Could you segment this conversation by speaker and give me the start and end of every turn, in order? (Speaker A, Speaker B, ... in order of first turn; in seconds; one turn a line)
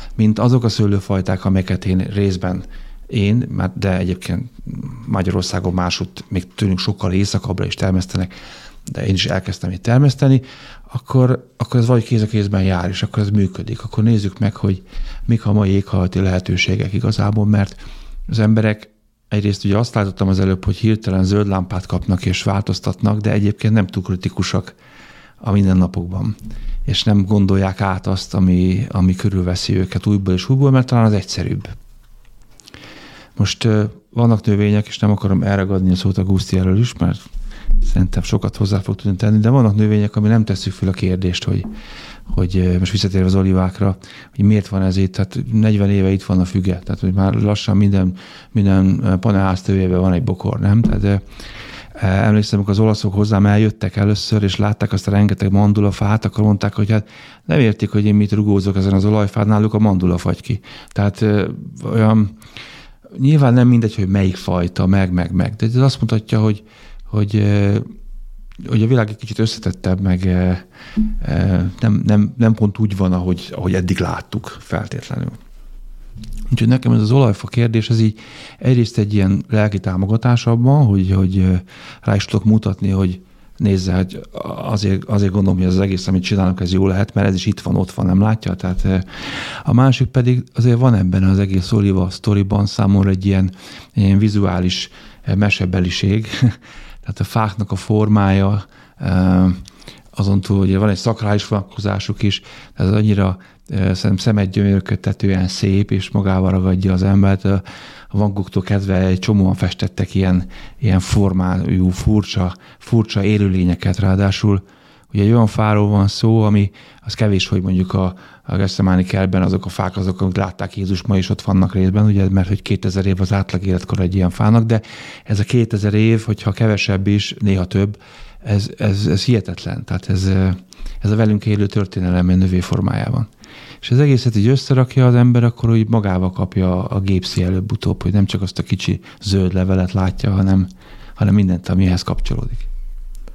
Speaker A: 0.2-8.3
Speaker A: 8.9-24.7
Speaker A: 25.4-26.3
Speaker A: 26.9-31.7
Speaker A: 33.4-37.2
Speaker A: 37.8-41.7
Speaker A: 42.3-51.2
Speaker A: 52.0-62.4
Speaker A: 63.1-67.9
Speaker A: 68.6-75.4
Speaker A: 76.5-99.6
Speaker A: 100.1-133.3
Speaker A: 133.8-142.7